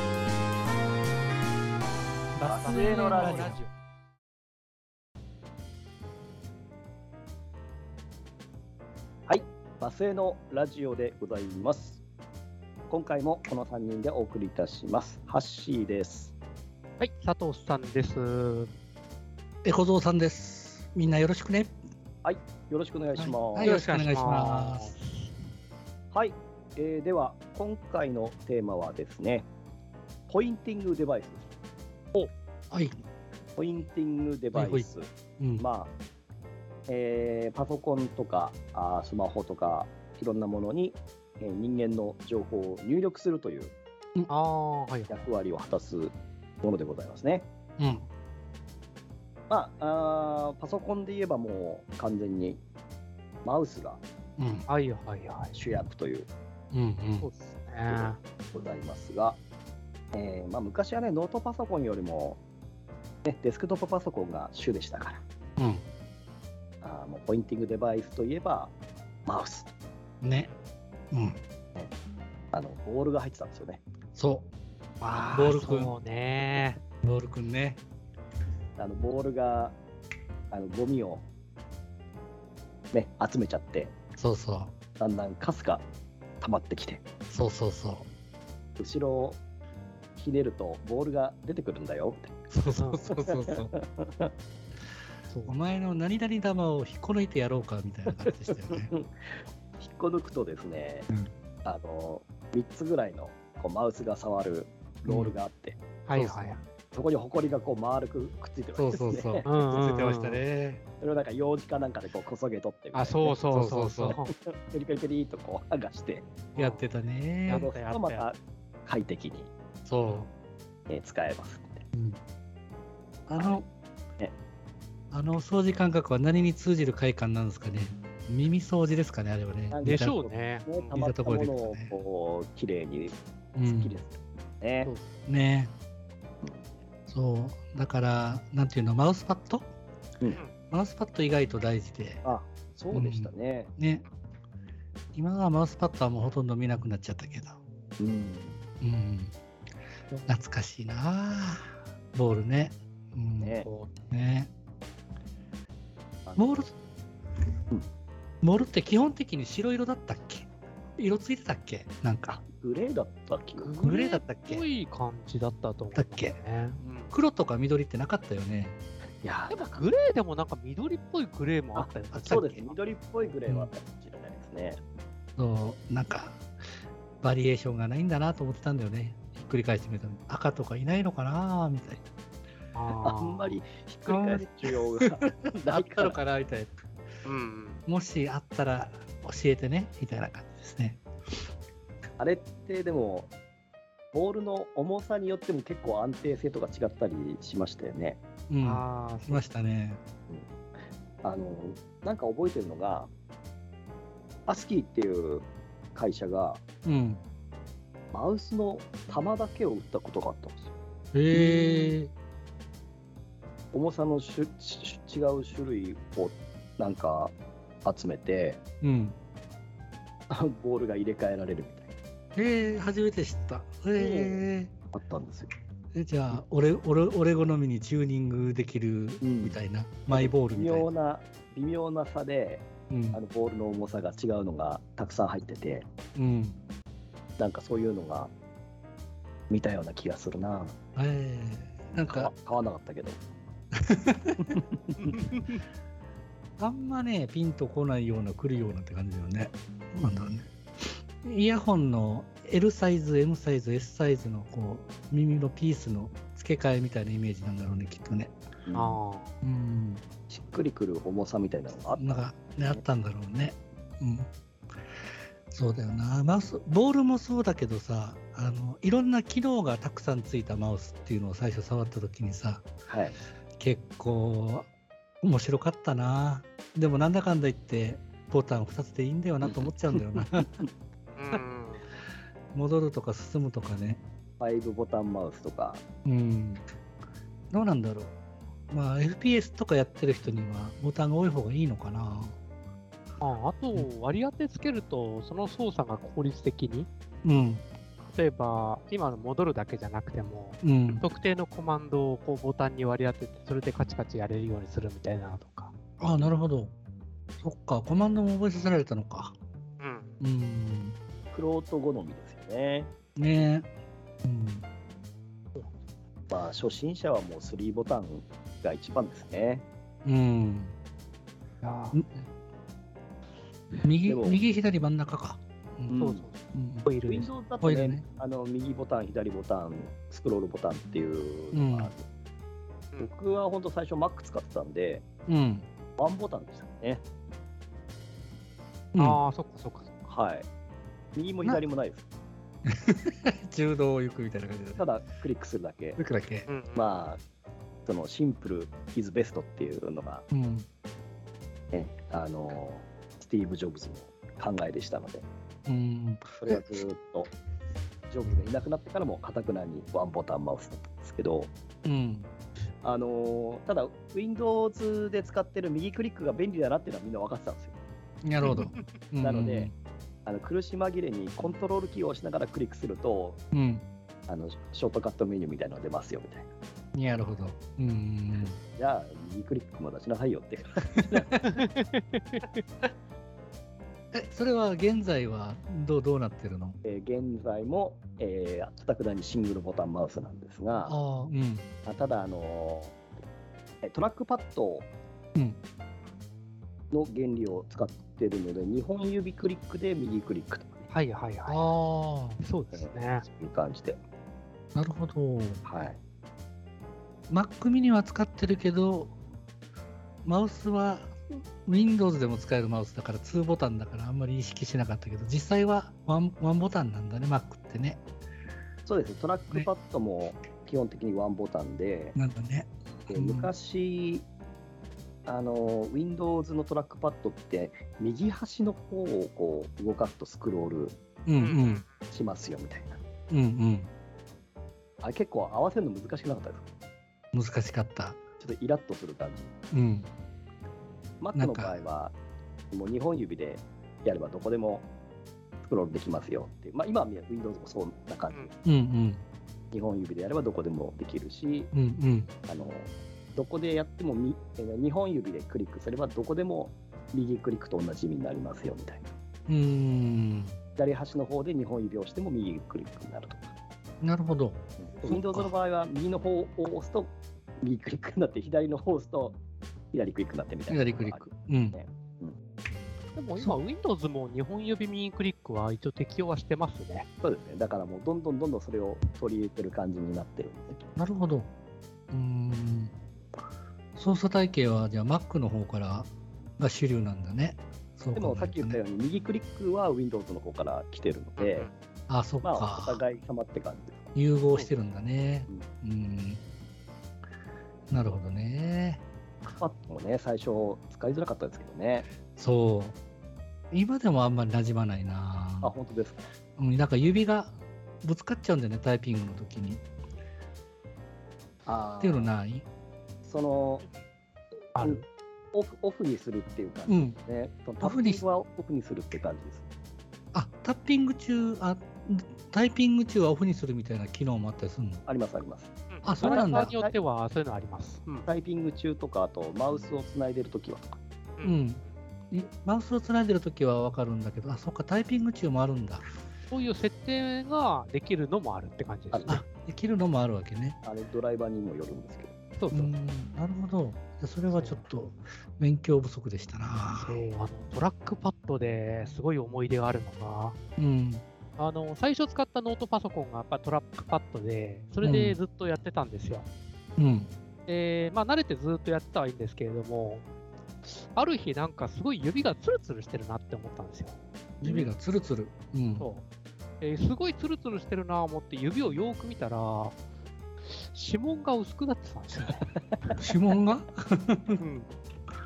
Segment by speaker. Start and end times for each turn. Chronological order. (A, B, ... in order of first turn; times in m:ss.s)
0:02.4-0:03.6 A
0:02.5-0:03.6 B
0:02.5-0:03.7 C
0:09.3-0:12.0 B
0:12.9-0:16.3 B
0:17.0-0:18.7 C
0:19.6-0:21.8 A
0:22.2-0:23.8 B
0:23.2-0:24.9 A
0:23.6-0:25.3 C
0:26.1-0:29.5 B
0:30.3-0:31.4 B
0:32.7-0:33.0 A
0:33.6-0:35.9 B
0:34.5-0:34.9 A
0:35.4-0:35.6 A
0:36.9-0:43.8 B
0:44.3-0:45.3 C
0:45.1-0:47.5 B
0:47.8-0:48.1 A
0:49.5-0:52.6 B
0:53.4-0:54.0 B
0:54.4-0:54.7 A
0:54.7-0:55.6 C
0:55.5-0:56.3 B
0:56.7-0:57.3 A
0:57.2-0:58.2 C
0:57.9-0:59.4 B
1:00.1-1:02.4 B
1:03.2-1:05.2 B
1:05.6-1:05.8 A
1:06.8-1:08.8 B
1:09.2-1:09.7 B
1:10.2-1:10.5 A
1:11.1-1:11.4 A
1:12.5-1:13.8 B
1:14.1-1:14.5 A
1:15.0-1:16.8 C
1:15.1-1:15.9 A
1:17.0-1:17.8 A
1:18.8-1:19.8 B
1:20.5-1:21.2 B
1:22.9-1:23.9 B
1:24.2-1:24.7 A
1:25.0-1:25.8 B
1:26.4-1:27.0 B
1:27.3-1:28.1 A
1:28.8-1:29.4 B
1:30.2-1:32.4 B
1:32.5-1:33.7 A
1:32.8-1:33.0 C
1:33.1-1:34.3 B
1:35.3-1:35.5 C
1:35.5-1:38.9 A
1:38.1-1:41.1 B
1:41.6-1:45.8 B
1:46.1-1:46.6 C
1:46.1-1:46.6 A
1:46.9-1:49.5 B
1:48.8-1:50.8 A
1:49.4-1:50.4 C
1:51.0-1:53.3 B
1:52.9-1:54.3 C
1:53.5-1:54.2 A
1:54.2-1:56.3 B
1:56.6-1:56.9 C
1:56.6-1:57.7 A
1:57.5-1:58.3 C
1:57.5-1:59.5 B
1:59.9-2:00.3 A
2:00.9-2:01.8 B
2:02.0-2:02.2 A
2:03.3-2:03.7 A
2:03.4-2:03.6 B
2:05.1-2:10.1 A
2:09.7-2:14.9 B
2:09.8-2:11.0 C
2:10.9-2:12.0 A
2:13.6-2:14.0 A
2:15.2-2:15.7 A
2:17.1-2:19.7 A
2:20.7-2:22.2 A
2:22.2-2:23.7 B
2:22.9-2:24.0 A
2:25.1-2:27.6 A
2:28.0-2:28.6 B
2:28.8-2:29.3 A
2:30.2-2:33.6 A
2:33.4-2:33.7 B
2:33.6-2:34.1 C
2:34.1-2:34.5 A
2:36.2-2:36.7 B
2:36.4-2:36.8 A
2:38.4-2:42.4 A
2:42.3-2:43.7 B
2:43.6-2:47.1 C
2:43.8-2:44.6 A
2:45.9-2:46.4 A
2:47.1-2:48.8 A
2:49.2-2:49.8 B
2:49.5-2:52.8 C
2:51.8-2:54.8 B
2:52.1-2:52.4 A
2:55.4-2:56.4 A
2:57.2-3:02.0 A
3:02.7-3:03.6 C
3:03.0-3:06.2 B
3:04.1-3:06.7 A
3:07.2-3:07.8 C
3:07.9-3:11.0 A
3:12.2-3:13.3 B
3:14.1-3:18.2 B
3:18.5-3:20.0 A
3:18.6-3:19.4 C
3:21.2-3:23.1 B
3:24.5-3:26.6 B
3:26.8-3:27.2 A
3:28.1-3:30.7 B
3:31.1-3:32.1 A
3:31.3-3:31.8 B
3:33.7-3:38.6 B
3:38.8-3:39.2 A
3:40.3-3:41.9 B
3:42.3-3:44.7 A
3:43.9-3:45.5 B
3:45.9-3:50.9 A
3:49.2-3:55.9 B
3:52.9-3:53.2 A
3:56.1-3:56.6 A
3:57.4-3:58.3 B
3:59.5-4:00.7 B
4:01.0-4:02.3 A
4:01.9-4:03.2 B
4:03.9-4:04.5 A
4:04.4-4:05.1 B
4:05.0-4:05.6 C
4:06.6-4:18.3 A
4:18.7-4:19.0 B
4:18.7-4:19.3 C
4:19.4-4:20.0 A
4:20.3-4:22.8 B
4:21.9-4:24.3 A
4:25.5-4:32.7 A
4:32.9-4:33.2 B
4:33.6-4:34.7 A
4:35.2-4:40.5 A
4:39.4-4:40.6 B
4:41.2-4:41.8 C
4:42.5-4:44.0 A
4:44.4-4:45.8 B
4:46.0-4:46.6 A
4:47.5-4:48.2 A
4:48.7-4:52.4 A
4:53.2-4:56.9 C
4:57.2-4:57.7 A
4:58.1-5:05.7 C
5:00.6-5:01.0 A
5:06.0-5:06.8 A
5:07.4-5:09.4 A
5:09.8-5:10.2 C
5:10.2-5:10.9 A
5:11.3-5:12.9 B
5:13.2-5:13.7 A
5:14.2-5:14.6 A
5:16.3-5:19.6 B
5:20.0-5:20.7 A
5:21.6-5:22.0 C
5:21.9-5:22.2 A
5:23.8-5:26.0 A
5:24.0-5:24.4 B
5:25.9-5:26.2 B
5:25.9-5:27.3 C
5:26.5-5:26.9 A
5:27.1-5:32.0 B
5:27.6-5:28.0 A
5:31.5-5:31.9 A
5:33.0-5:35.0 B
5:35.3-5:35.7 A
5:36.0-5:37.0 B
5:38.9-5:39.2 A
5:39.0-5:39.9 C
5:40.1-5:40.5 B
5:41.2-5:42.1 B
5:42.7-5:44.8 A
5:44.8-5:46.0 B
5:46.0-5:46.5 A
5:46.5-5:47.0 C
5:46.8-5:47.2 B
5:47.8-5:50.2 B
5:50.3-5:50.7 A
5:51.7-5:55.3 B
5:55.7-5:56.8 A
5:56.4-5:57.3 B
5:58.1-6:01.5 B
6:01.8-6:02.3 A
6:02.8-6:07.8 B
6:08.2-6:09.8 A
6:08.5-6:08.9 C
6:09.2-6:09.7 B
6:10.2-6:13.4 B
6:13.5-6:13.9 A
6:14.3-6:16.5 B
6:16.9-6:18.6 A
6:18.7-6:21.4 B
6:21.5-6:22.4 C
6:24.1-6:26.8 A
6:26.8-6:31.0 B
6:30.8-6:31.7 A
6:31.9-6:33.0 B
6:33.8-6:34.9 B
6:36.9-6:40.9 B
6:40.9-6:41.8 C
6:41.5-6:42.4 A
6:42.4-6:43.2 C
6:42.7-6:44.0 B
6:44.8-6:45.6 A
6:45.6-6:46.0 B
6:47.3-6:49.2 A
6:50.2-6:58.0 A
6:58.9-7:02.2 B
7:02.2-7:03.5 A
7:03.1-7:04.3 B
7:05.2-7:11.0 B
7:11.2-7:11.8 A
7:11.4-7:11.9 C
7:12.1-7:13.0 B
7:13.3-7:13.9 A
7:15.0-7:16.6 B
7:17.3-7:18.2 A
7:18.4-7:19.6 B
7:19.7-7:20.1 A
7:21.2-7:22.2 B
7:21.4-7:21.7 A
7:22.7-7:24.9 B
7:25.6-7:28.6 B
7:28.6-7:29.2 A
7:29.7-7:31.7 B
7:31.7-7:32.3 A
7:32.5-7:39.1 B
7:39.5-7:40.6 A
7:40.8-7:43.5 B
7:44.0-7:45.5 A
7:44.8-7:49.4 B
7:49.9-7:52.4 B
7:50.7-7:51.8 A
7:53.2-7:57.1 C
7:57.2-8:00.8 B
8:01.0-8:01.5 A
8:02.1-8:02.9 A
8:04.0-8:08.8 A
8:08.2-8:11.7 B
8:11.4-8:11.7 C
8:12.1-8:13.0 A
8:12.4-8:14.1 B
8:14.2-8:16.4 A
8:17.9-8:18.2 B
8:17.9-8:19.0 A
8:19.4-8:22.1 B
8:22.3-8:23.0 A
8:23.7-8:25.7 A
8:25.6-8:26.3 B
8:26.6-8:29.8 A
8:31.6-8:32.3 B
8:32.0-8:32.7 A
8:33.2-8:33.8 B
8:34.8-8:35.0 C
8:34.8-8:35.0 B
8:35.5-8:39.6 B
8:36.9-8:37.2 A
8:37.8-8:38.2 A
8:40.3-8:45.0 A
8:45.0-8:47.0 B
8:45.9-8:48.2 C
8:46.0-8:46.7 A
8:48.2-8:51.0 B
8:51.4-8:51.9 C
8:51.4-8:56.0 A
8:56.5-8:59.4 C
8:59.1-8:59.4 B
8:59.3-9:00.8 A
9:00.8-9:02.3 B
9:02.6-9:02.9 C
9:02.7-9:07.2 A
9:04.5-9:04.8 C
9:07.0-9:10.6 C
9:10.8-9:11.2 A
9:11.6-9:16.5 C
9:15.0-9:15.4 A
9:17.0-9:17.3 A
9:17.7-9:20.2 C
9:20.8-9:24.2 C
9:24.6-9:26.1 A
9:24.6-9:24.9 B
9:26.0-9:26.2 C
9:26.8-9:30.0 C
9:30.6-9:32.7 C
9:33.2-9:34.6 A
9:34.6-9:34.9 C